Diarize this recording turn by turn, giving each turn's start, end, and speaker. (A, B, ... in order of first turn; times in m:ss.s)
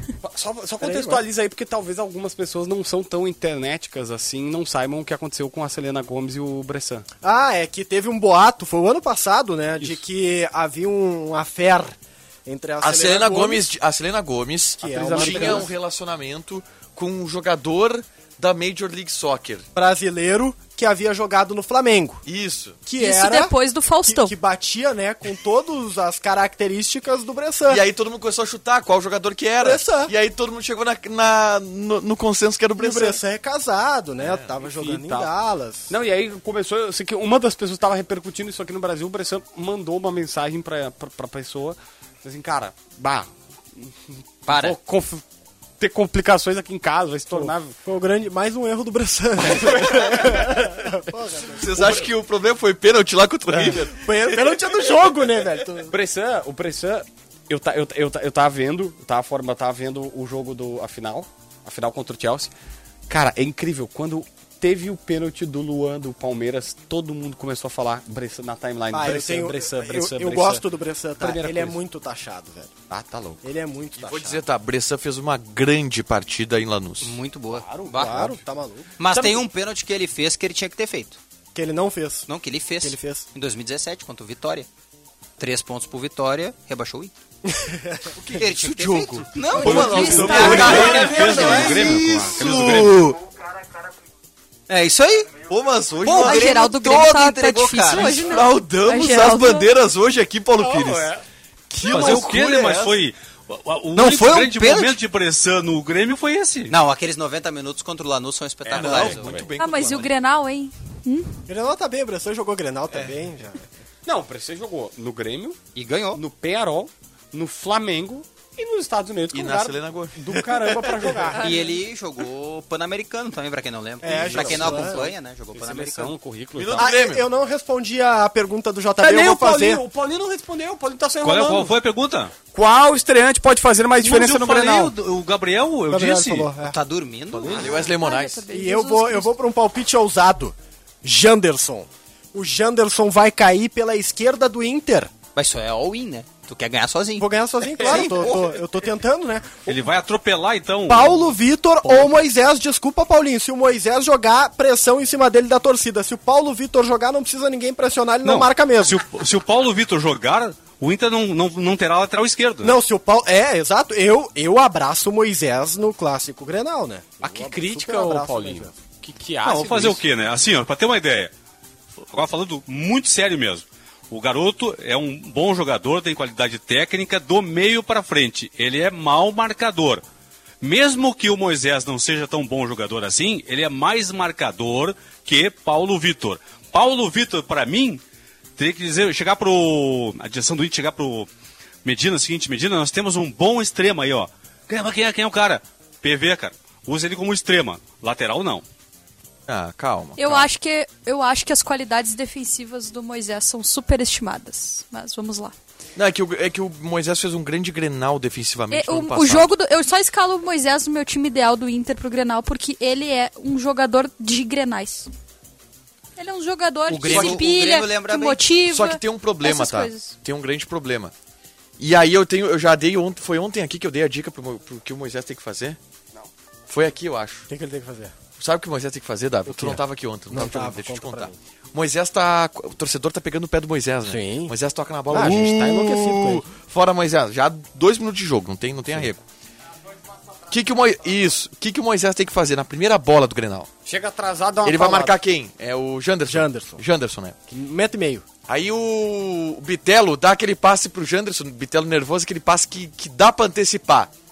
0:00.2-0:07.1 A
0:00.8-0:01.2 B
0:07.2-0:13.7 B
0:12.8-0:19.7 C
0:14.8-0:15.7 B
0:14.8-0:15.7 A
0:19.8-0:22.2 B
0:22.3-0:22.8 C
0:22.8-0:27.8 B
0:22.9-0:24.4 D
0:27.7-0:33.2 C
0:29.6-0:30.1 B
0:32.8-0:35.9 B
0:34.2-0:34.5 C
0:34.6-0:35.3 A
0:35.9-0:45.2 A
0:44.5-0:44.8 E
0:45.8-0:47.8 A
0:47.3-0:52.1 B
0:51.5-0:54.6 C
0:53.5-0:55.9 B
0:55.9-1:02.5 A
1:03.1-1:10.6 A
1:08.9-1:12.7 B
1:11.2-1:11.8 A
1:12.9-1:13.4 A
1:13.4-1:14.4 B
1:14.0-1:17.2 C
1:17.0-1:18.3 E
1:17.5-1:18.4 A
1:17.9-1:18.9 B
1:19.0-1:21.2 E
1:19.1-1:19.4 A
1:21.6-1:22.3 B
1:22.3-1:24.7 E
1:22.8-1:23.3 B
1:25.4-1:27.1 E
1:27.5-1:28.1 B
1:28.2-1:33.2 C
1:28.3-1:31.7 E
1:29.6-1:31.5 D
1:30.2-1:31.8 A
1:30.6-1:33.0 F
1:34.7-1:35.4 E
1:35.5-1:36.6 C
1:36.0-1:38.4 E
1:36.1-1:39.7 D
1:38.0-1:41.1 C
1:40.6-1:41.2 A
1:41.7-1:43.0 C
1:41.9-1:46.8 F
1:42.0-1:42.3 A
1:44.0-1:45.0 E
1:46.7-1:49.4 E
1:48.7-1:49.5 A
1:48.7-1:50.1 C
1:49.6-1:51.4 D
1:51.5-1:53.7 B
1:54.1-1:55.6 A
1:55.8-1:56.2 E
1:56.1-2:01.4 A
1:59.3-2:00.2 C
2:00.7-2:01.5 B
2:01.4-2:01.7 D
2:01.4-2:06.1 E
2:04.0-2:05.0 B
2:04.0-2:06.9 A
2:06.6-2:07.3 C
2:06.8-2:09.8 B
2:09.0-2:11.8 A
2:11.2-2:12.3 F
2:12.5-2:15.0 A
2:14.0-2:16.5 F
2:15.9-2:16.8 B
2:16.6-2:17.9 E
2:17.4-2:17.7 B
2:17.5-2:18.5 C
2:17.8-2:19.4 D
2:18.5-2:25.1 B
2:25.4-2:28.4 E
2:27.2-2:29.7 B
2:27.8-2:28.4 A
2:29.6-2:31.3 F
2:30.9-2:39.0 B
2:38.2-2:42.8 F
2:42.6-2:48.8 B
2:47.2-2:50.0 A
2:49.4-2:51.3 F
2:52.1-3:00.0 F
3:00.6-3:08.0 F
3:08.6-3:11.3 F
3:11.8-3:18.6 F
3:19.5-3:20.5 C
3:20.2-3:25.6 D
3:26.0-3:29.5 C
3:28.7-3:35.1 D
3:36.2-3:40.2 D
3:36.9-3:38.5 E
3:37.1-3:37.4 C
3:38.6-3:41.1 C
3:41.8-3:45.8 C
3:46.7-3:47.5 C
3:47.5-3:48.1 B
3:48.4-3:59.2 C
3:49.5-3:49.8 B
3:50.3-3:51.3 B
3:54.1-3:54.5 B
3:55.1-3:56.5 B
4:00.5-4:03.7 C
4:03.8-4:05.2 A
4:04.6-4:07.4 C
4:06.3-4:06.8 B
4:07.5-4:08.2 B
4:08.5-4:14.1 C